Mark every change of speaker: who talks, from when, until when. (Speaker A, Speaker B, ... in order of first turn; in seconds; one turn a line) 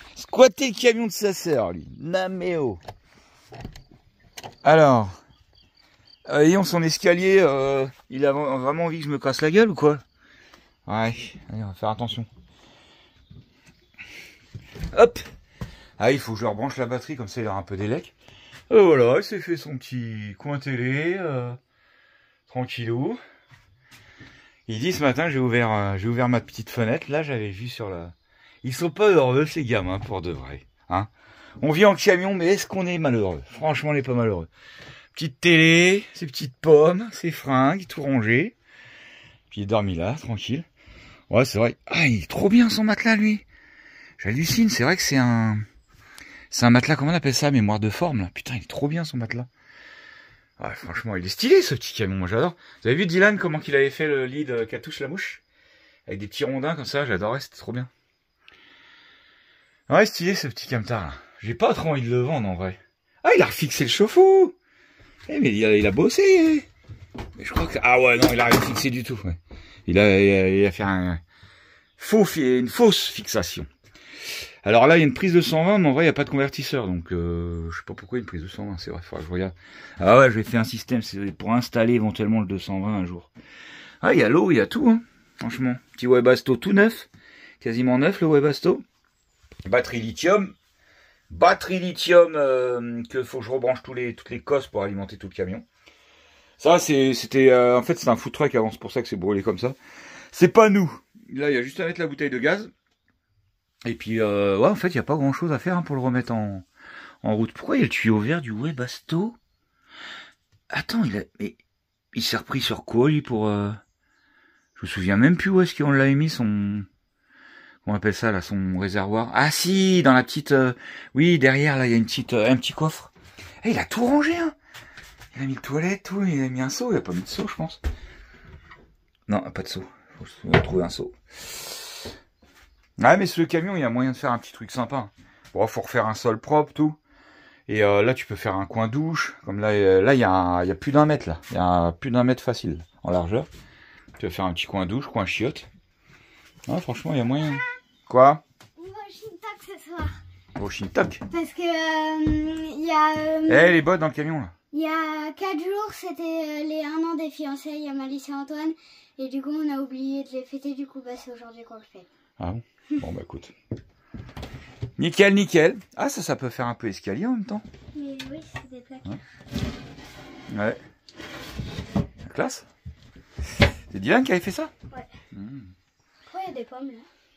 Speaker A: 0.1-2.8
Speaker A: 4.6-5.2
Speaker A: 6.3-10.0
Speaker A: 10.8-12.3
Speaker A: 14.9-15.3
Speaker A: 16.0-18.1
Speaker A: 18.7-21.6
Speaker A: 22.5-23.2
Speaker A: 24.7-34.5
Speaker A: 35.1-38.5
Speaker A: 39.5-40.6
Speaker A: 41.3-43.4
Speaker A: 44.2-45.6
Speaker A: 46.5-49.5
Speaker A: 50.6-55.4
Speaker A: 56.1-57.9
Speaker A: 59.9-64.5
Speaker A: 65.3-66.7
Speaker A: 67.4-71.2
Speaker A: 72.0-73.7
Speaker A: 74.6-83.3
Speaker A: 84.0-87.1
Speaker A: 87.6-88.8
Speaker A: 89.6-90.5
Speaker A: 91.3-95.6
Speaker A: 96.6-99.8
Speaker A: 100.3-102.7
Speaker A: 103.8-106.7
Speaker A: 107.2-109.4
Speaker A: 110.7-111.6
Speaker A: 112.1-113.8
Speaker A: 114.8-116.9
Speaker A: 117.8-123.1
Speaker A: 123.6-124.5
Speaker A: 125.3-127.8
Speaker A: 129.3-132.1
Speaker A: 133.0-137.0
Speaker A: 137.7-143.5
Speaker A: 144.2-145.7
Speaker A: 146.7-148.4
Speaker B: 148.8-150.2
Speaker A: 150.6-151.2
Speaker B: 151.3-153.8
Speaker A: 153.5-154.5
Speaker B: 154.7-162.1
Speaker A: 162.4-163.5
Speaker A: 165.0-167.6
Speaker B: 167.9-169.1
Speaker A: 170.5-170.8
Speaker A: 172.2-172.6
Speaker A: 173.9-174.7
Speaker A: 175.3-175.7
Speaker B: 176.3-177.1